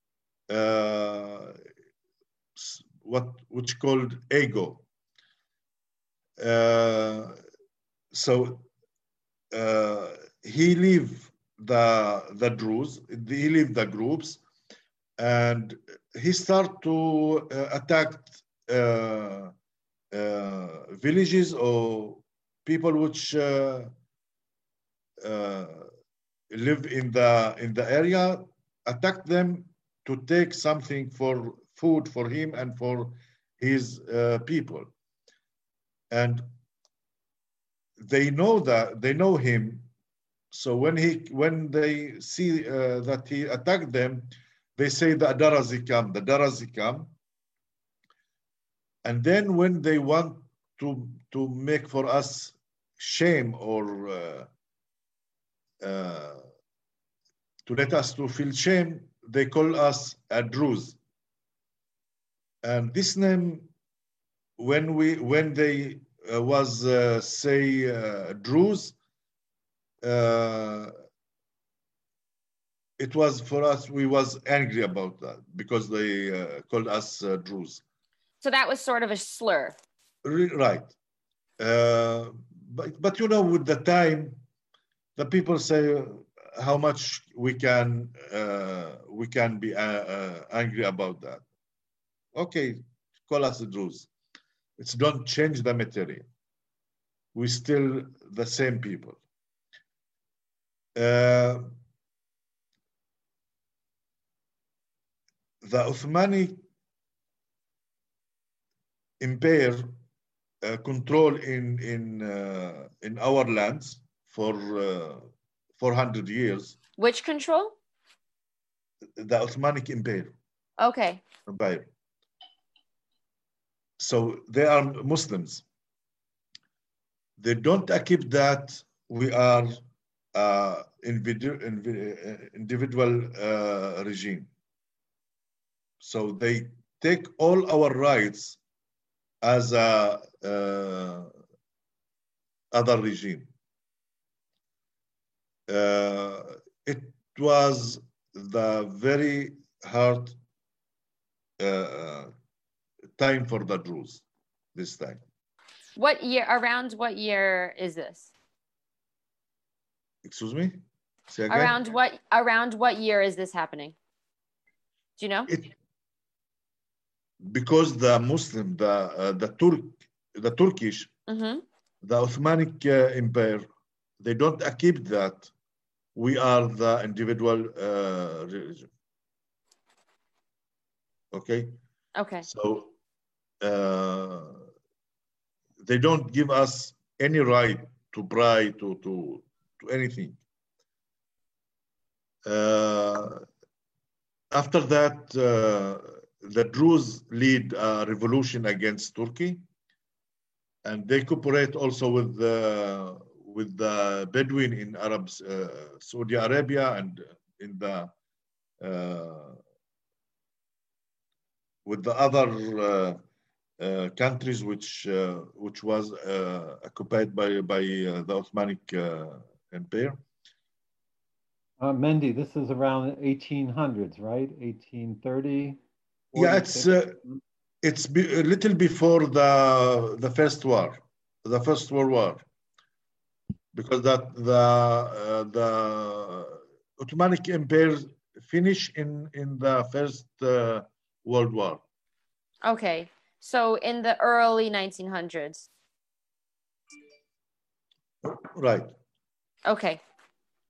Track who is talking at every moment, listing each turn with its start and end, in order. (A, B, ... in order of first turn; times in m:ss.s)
0:00.5-0:01.5 A
0:02.6-0:04.8 A
0:06.4-0:07.4 A
0:08.1-0:08.7 A
0:09.5-0:14.4 A
0:15.2-0:19.5 A
0:20.1-0:23.9 A
0:25.2-0:25.9 A
0:26.5-0:34.9 A
0:36.1-0:36.5 A
0:38.0-0:39.9 A
0:40.5-0:47.1 A
0:49.0-0:54.5 A
0:55.8-0:56.5 A
0:57.6-1:01.0 A
1:02.6-1:03.7 A
1:04.6-1:09.0 A
1:10.0-1:10.9 A
1:13.0-1:17.8 A
1:18.4-1:19.8 B
1:20.2-1:20.9 A
1:21.6-1:24.4 A
1:25.2-1:31.4 A
1:32.3-1:34.1 A
1:34.8-1:36.2 A
1:37.3-1:39.2 A
1:40.9-1:41.7 A
1:45.6-1:46.6 A
1:49.2-1:49.8 A
1:50.6-1:55.3 A
1:55.8-1:56.8 A
1:57.0-1:57.8 B
1:59.2-2:00.3 A
2:00.8-2:01.2 B
2:01.5-2:01.9 A
2:04.0-2:05.6 A
2:07.4-2:09.8 A
2:10.3-2:14.5 A
2:16.0-2:18.6 A
2:19.4-2:21.3 A
2:22.7-2:23.5 A
2:25.7-2:30.4 A
2:31.6-2:32.3 A
2:33.2-2:35.2 A
2:36.0-2:38.3 B
2:40.2-2:41.8 A
2:41.5-2:43.9 B
2:45.2-2:45.5 B
2:47.4-2:51.1 A
2:51.3-2:51.6 B
2:52.0-2:53.6 A
2:54.2-2:55.5 A
2:56.1-2:58.9 A
3:01.3-3:01.8 A
3:02.2-3:02.5 B
3:02.4-3:02.9 A
3:03.6-3:04.6 A
3:05.8-3:10.4 A
3:12.4-3:13.4 A
3:14.5-3:19.6 A
3:20.8-3:28.1 A
3:28.8-3:29.6 A
3:31.8-3:33.2 A
3:33.8-3:40.2 A
3:41.8-3:45.8 C
3:46.3-3:47.3 C
3:46.3-3:47.2 A
3:47.8-3:52.4 A
3:53.7-4:01.8 A
4:02.6-4:05.7 B
4:08.2-4:08.9 A
4:09.6-4:10.0 B